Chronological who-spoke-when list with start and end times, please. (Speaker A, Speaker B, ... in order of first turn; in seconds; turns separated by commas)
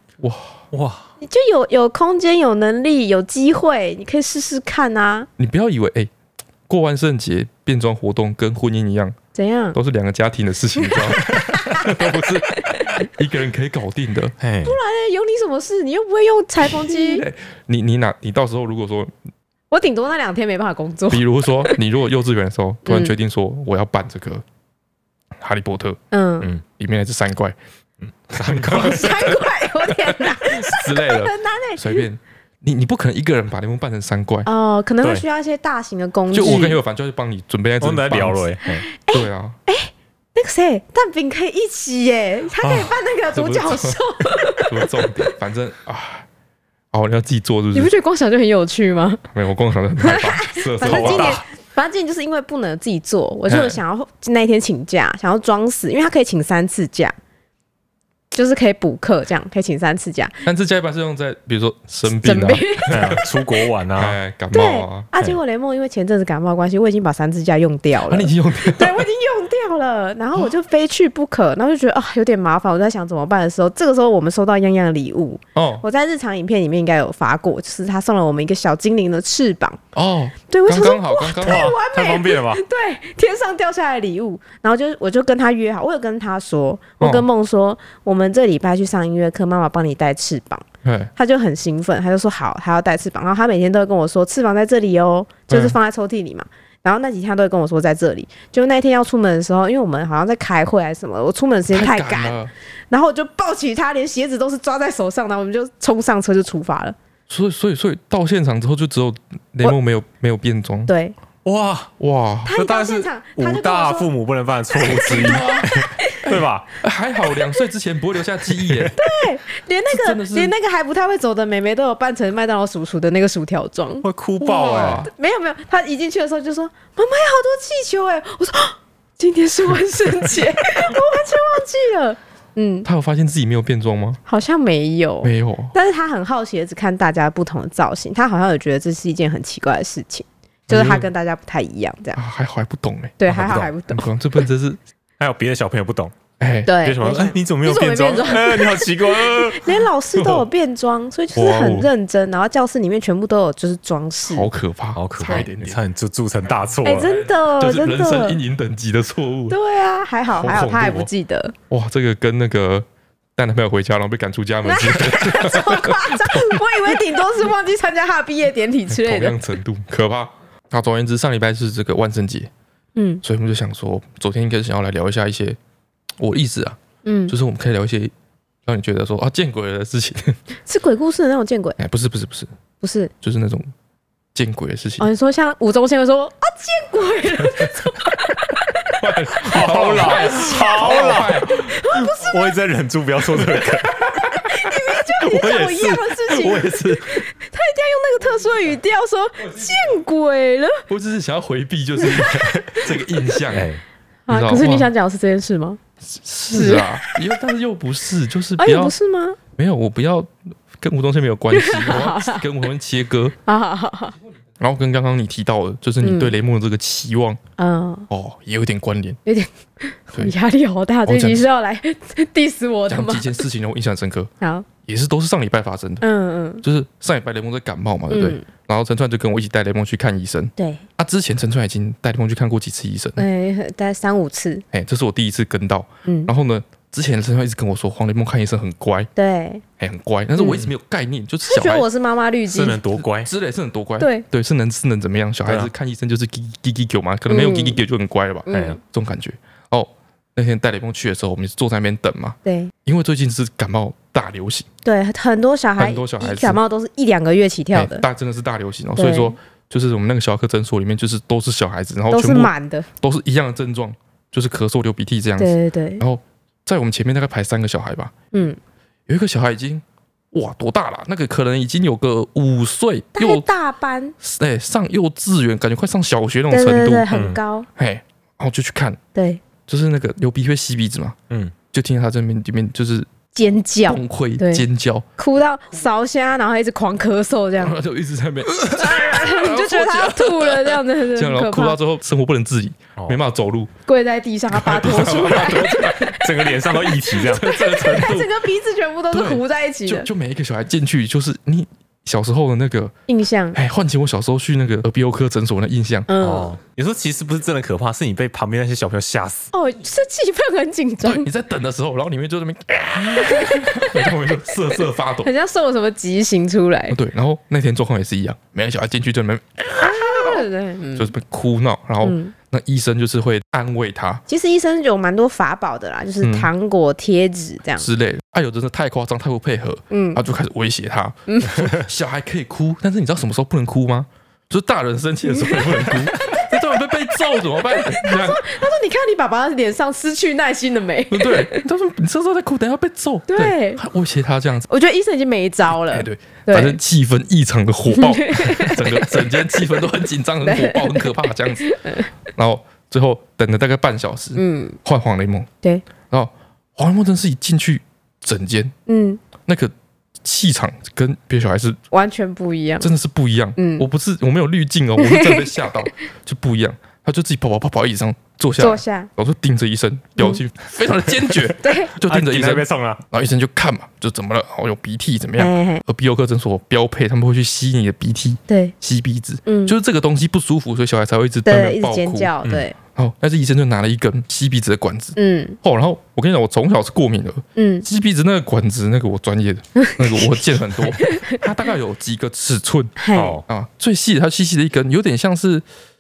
Speaker A: 0.2-0.6, Speaker B: 0.7-1.1, Speaker C: 1.2-5.3, Speaker A: 5.4-6.1, Speaker A: 6.7-9.2, Speaker C: 9.3-9.8, Speaker A: 9.7-14.3, Speaker C: 11.5-13.0, Speaker B: 14.4-14.8, Speaker C: 14.6-17.2, Speaker A: 16.8-19.1, Speaker C: 19.7-21.8, Speaker A: 21.1-24.4, Speaker C: 22.9-23.1, Speaker A: 25.4-26.0, Speaker C: 26.1-26.5, Speaker A: 26.7-27.6, Speaker B: 28.0-29.2, Speaker A: 28.3-34.5, Speaker C: 28.7-32.0, Speaker C: 34.5-36.8, Speaker A: 36.3-38.5, Speaker B: 37.8-38.9, Speaker C: 38.7-45.3, Speaker A: 39.1-39.6, Speaker B: 42.6-43.0, Speaker A: 43.3-44.0, Speaker A: 44.5-46.3, Speaker A: 46.9-47.9, Speaker C: 47.7-49.2, Speaker A: 49.3-51.4, Speaker C: 50.0-57.1, Speaker B: 50.8-51.4, Speaker A: 53.5-53.8, Speaker C: 58.3-60.4, Speaker A: 60.5-63.2, Speaker C: 62.1-63.4, Speaker B: 62.9-64.2, Speaker A: 64.0-65.1, Speaker C: 64.5-79.8, Speaker A: 68.1-69.1, Speaker A: 75.5-75.8, Speaker A: 79.9-81.7, Speaker C: 80.5-102.4, Speaker B: 81.4-82.6, Speaker A: 87.0-87.3, Speaker A: 90.8-91.1, Speaker A: 95.5-95.8, Speaker A: 101.7-102.5, Speaker C: 102.9-107.0, Speaker A: 107.3-110.9, Speaker C: 110.9-111.2, Speaker B: 111.5-111.9, Speaker A: 112.0-112.5, Speaker C: 112.5-114.1, Speaker B: 112.5-116.7, Speaker C: 114.7-116.3, Speaker A: 115.1-119.0, Speaker B: 118.5-118.9, Speaker C: 119.0-124.1, Speaker A: 119.9-120.5, Speaker B: 124.0-125.1, Speaker A: 124.4-125.1, Speaker C: 124.8-132.9, Speaker A: 132.8-134.2, Speaker C: 134.3-142.2, Speaker A: 135.2-135.8, Speaker A: 140.7-141.1, Speaker A: 142.2-144.8, Speaker C: 143.2-144.1, Speaker B: 143.3-143.7, Speaker B: 145.2-146.2, Speaker A: 146.4-146.8, Speaker C: 146.7-154.5, Speaker B: 146.8-149.8, Speaker A: 150.2-150.5, Speaker A: 151.3-151.9, Speaker A: 154.3-155.8, Speaker B: 154.9-157.1, Speaker C: 156.8-158.4, Speaker A: 157.0-159.6, Speaker C: 159.5-161.6, Speaker A: 160.3-161.1, Speaker A: 161.7-167.0, Speaker C: 164.6-169.4, Speaker A: 168.9-172.5, Speaker C: 173.0-173.2, Speaker A: 173.2-175.6, Speaker A: 176.2-178.1, Speaker C: 177.1-177.3, Speaker A: 178.7-180.4, Speaker C: 180.7-181.8, Speaker A: 181.8-182.5, Speaker C: 182.8-183.1, Speaker A: 183.2-183.7, Speaker A: 184.3-185.1, Speaker C: 185.0-190.9, Speaker A: 187.4-187.7, Speaker A: 189.0-191.8, Speaker B: 189.4-191.4, Speaker C: 191.4-192.6, Speaker B: 192.0-194.0, Speaker A: 193.4-197.3, Speaker C: 194.4-200.9, Speaker A: 200.9-203.7, Speaker C: 202.0-202.9, Speaker B: 202.4-202.7, Speaker B: 203.5-203.8, Speaker C: 204.3-205.8, Speaker A: 204.3-204.9, Speaker A: 206.0-208.9, Speaker C: 206.5-207.2, Speaker C: 208.6-209.4, Speaker A: 209.6-213.3, Speaker C: 211.5-212.4, Speaker C: 213.5-214.2, Speaker A: 214.6-217.4, Speaker C: 216.0-216.4, Speaker C: 217.6-218.1, Speaker A: 218.1-219.2, Speaker C: 219.3-223.4, Speaker A: 221.1-221.5, Speaker A: 222.9-224.3, Speaker C: 224.4-224.7, Speaker A: 224.8-226.0, Speaker C: 226.0-226.6, Speaker A: 226.6-233.2, Speaker C: 228.1-228.4, Speaker C: 230.6-230.8, Speaker C: 233.2-234.6, Speaker A: 234.7-239.1, Speaker C: 236.1-236.3, Speaker C: 239.2-239.6, Speaker A: 239.8-241.9, Speaker C: 240.4-240.6, Speaker C: 241.5-242.8, Speaker B: 242.5-243.3, Speaker A: 242.9-254.7, Speaker C: 244.0-244.2, Speaker B: 245.5-245.7, Speaker C: 247.3-247.8, Speaker C: 248.5-248.8, Speaker B: 248.5-248.8, Speaker C: 252.4-252.7, Speaker C: 254.8-258.1, Speaker A: 255.8-256.6, Speaker A: 257.7-268.1, Speaker C: 259.0-259.4, Speaker C: 262.1-262.9, Speaker C: 265.4-266.0, Speaker C: 268.3-268.6, Speaker A: 269.1-273.5, Speaker C: 273.1-274.1, Speaker A: 274.2-277.1, Speaker C: 276.5-277.7, Speaker B: 277.1-277.4, Speaker A: 277.8-279.0, Speaker C: 279.1-279.4, Speaker A: 279.7-281.2, Speaker A: 281.7-283.1, Speaker C: 283.4-284.6, Speaker A: 283.9-285.1, Speaker C: 285.2-287.8, Speaker A: 287.6-293.7, Speaker C: 288.7-291.8, Speaker C: 293.9-300.1, Speaker A: 294.5-296.2, Speaker B: 296.1-297.5, Speaker A: 297.1-298.3, Speaker A: 299.1-302.9, Speaker C: 303.1-303.6, Speaker A: 303.5-306.1, Speaker C: 306.1-306.6, Speaker B: 306.2-309.5, Speaker C: 309.5-311.3, Speaker A: 311.0-315.3, Speaker C: 313.1-314.1, Speaker C: 315.2-317.0, Speaker A: 316.9-324.2, Speaker C: 319.8-321.1, Speaker C: 322.0-322.3, Speaker C: 324.3-327.9, Speaker A: 326.2-326.5, Speaker A: 327.8-338.4, Speaker C: 329.9-330.2, Speaker C: 331.3-331.7, Speaker C: 335.3-335.6, Speaker C: 336.2-336.5, Speaker C: 337.7-341.6, Speaker A: 341.1-344.7, Speaker C: 343.3-343.8, Speaker C: 344.7-346.8, Speaker A: 345.9-351.7, Speaker C: 347.9-349.3, Speaker C: 350.4-352.1, Speaker A: 352.3-355.5, Speaker C: 354.4-354.8, Speaker A: 356.1-358.7, Speaker C: 358.9-359.2, Speaker A: 359.4-361.8, Speaker C: 361.9-362.9, Speaker A: 362.8-382.3, Speaker C: 363.6-363.9, Speaker C: 365.0-365.7, Speaker C: 368.6-369.1, Speaker C: 371.6-371.9, Speaker B: 372.0-373.0, Speaker C: 375.4-375.8, Speaker C: 378.5-378.7, Speaker C: 379.5-379.8, Speaker C: 381.4-382.8, Speaker A: 382.9-395.6, Speaker C: 385.2-385.6, Speaker C: 387.6-387.9, Speaker C: 389.8-391.4, Speaker C: 393.0-393.4, Speaker B: 393.1-393.4